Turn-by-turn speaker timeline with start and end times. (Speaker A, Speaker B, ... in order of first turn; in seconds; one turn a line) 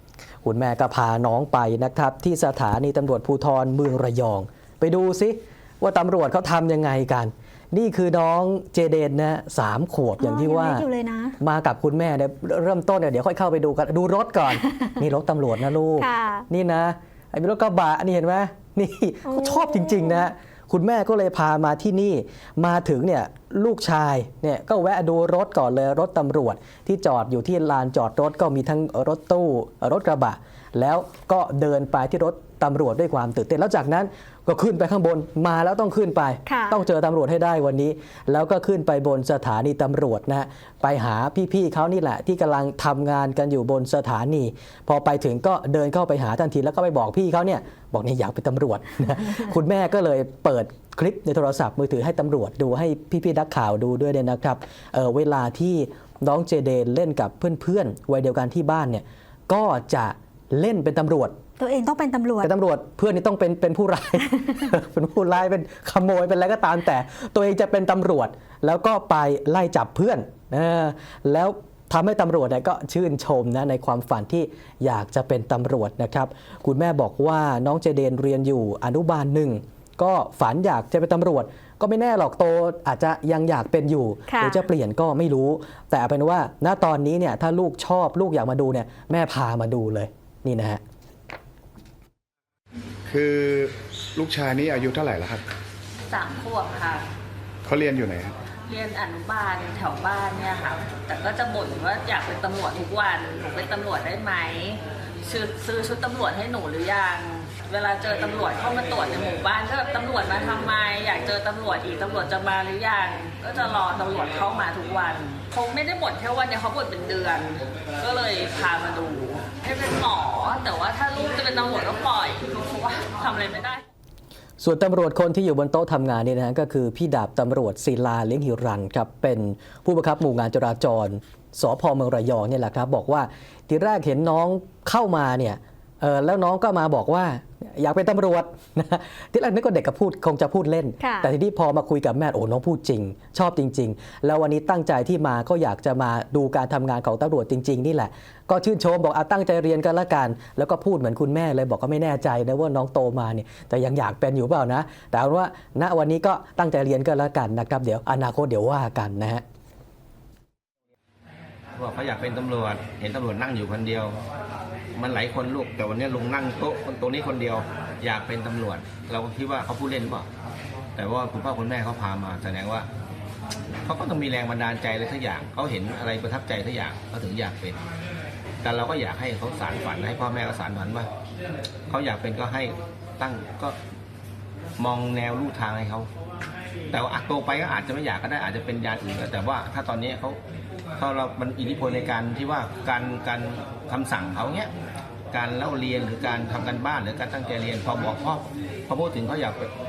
Speaker A: 0.4-10.9
Speaker B: 10.2-11.4
Speaker A: 11.4-61.4
Speaker B: 16.0-16.5
Speaker B: 19.2-20.2
Speaker B: 36.5-36.8
Speaker B: 61.6-62.5
Speaker A: 62.4-90.8
Speaker B: 84.3-84.7
Speaker C: 93.1-95.4
Speaker D: 96.1-97.0
Speaker C: 97.7-98.4
Speaker D: 98.7-123.8
Speaker A: 124.6-159.4
Speaker B: 141.0-141.3
Speaker E: 161.8-164.2
Speaker E: 164.9-170.3
Speaker E: 171.0-172.9
Speaker E: 173.9-177.8
Speaker E: 178.6-181.1
Speaker E: 181.9-183.8
Speaker E: 184.8-186.1
Speaker E: 186.9-190.4
Speaker E: 191.0-194.7
Speaker E: 195.3-199.7